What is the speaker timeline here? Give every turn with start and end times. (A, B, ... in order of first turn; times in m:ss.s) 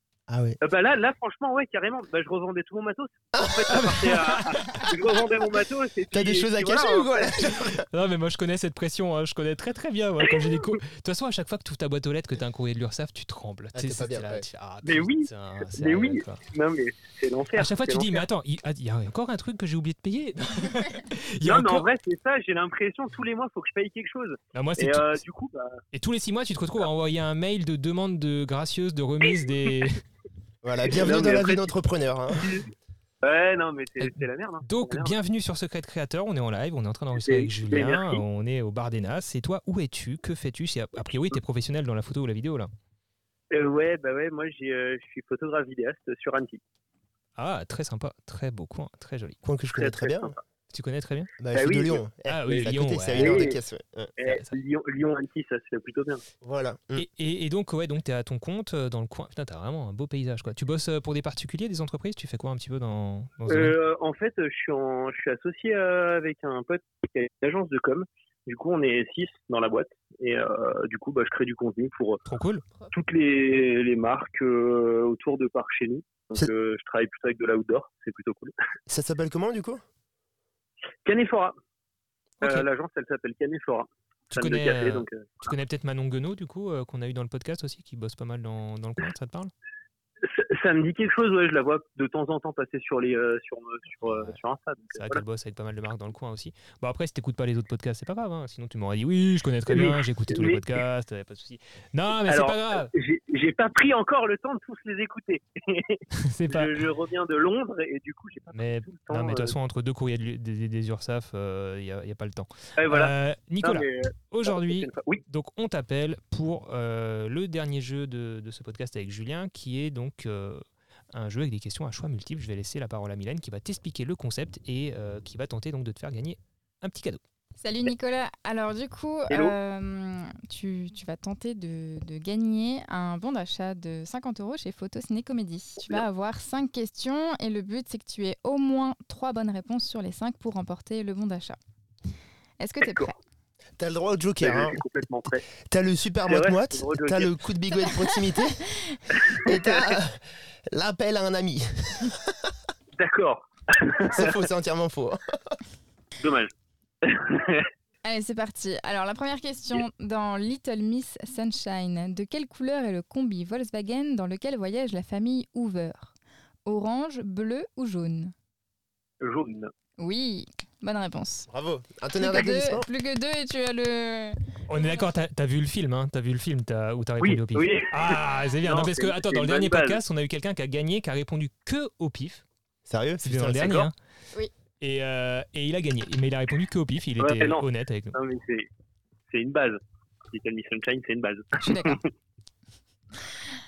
0:00.3-0:00.6 A
0:00.6-0:07.3 B
0:03.3-0:04.0 A
0:03.7-0:04.9 C
0:06.1-0:07.8 A
0:07.5-0:16.4 C
0:13.7-0:14.4 A
0:14.8-0:18.2 B
0:17.5-0:21.8 C
0:21.4-0:25.8 B
0:24.5-0:25.2 C
0:25.9-0:30.0 C
0:30.6-0:32.5 A
0:30.9-0:31.7 B
0:32.3-0:32.7 B
0:33.2-0:35.2 B
0:34.0-0:42.7 C
0:37.1-0:38.2 B
0:43.5-0:46.6 B
0:47.4-0:49.4 C
0:49.4-0:50.4 A
0:49.7-0:50.4 B
0:50.7-0:51.3 C
0:51.4-0:54.1 A
0:51.5-0:53.6 B
0:52.3-0:53.4 C
0:54.2-0:56.2 B
0:54.2-0:54.5 C
0:56.4-0:57.0 A
0:57.0-1:03.7 C
1:03.5-1:12.2 B
1:12.2-1:12.6 C
1:12.9-1:18.5 B
1:18.9-1:19.8 A
1:21.0-1:21.5 B
1:22.4-1:22.7 C
1:22.4-1:25.5 B
1:24.3-1:29.5 C
1:30.2-1:35.2 B
1:34.9-1:42.9 C
1:39.7-1:40.8 B
1:42.2-1:49.6 B
1:46.1-1:46.7 C
1:48.5-2:07.2 C
1:52.8-1:55.2 B
2:07.6-2:21.6 D
2:22.6-2:23.1 D
2:22.8-2:23.1 B
2:23.8-2:24.8 A
2:24.4-2:25.4 B
2:25.7-2:28.7 A
2:26.3-2:27.3 B
2:29.1-2:29.9 B
2:29.4-2:32.3 A
2:33.0-2:34.3 B
2:34.1-2:35.6 A
2:36.2-2:36.5 B
2:37.0-2:37.7 B
2:38.0-2:46.1 D
2:46.6-2:48.3 D
2:49.2-2:49.7 B
2:50.0-2:51.5 D
2:51.5-2:52.9 A
2:52.2-2:55.0 D
2:54.7-3:02.4 C
2:57.2-3:00.0 B
3:02.9-3:03.9 A
3:03.2-3:03.9 C
3:04.8-3:08.2 C
3:07.2-3:08.7 B
3:09.3-3:09.8 B
3:10.3-3:12.0 B
3:11.6-3:12.0 D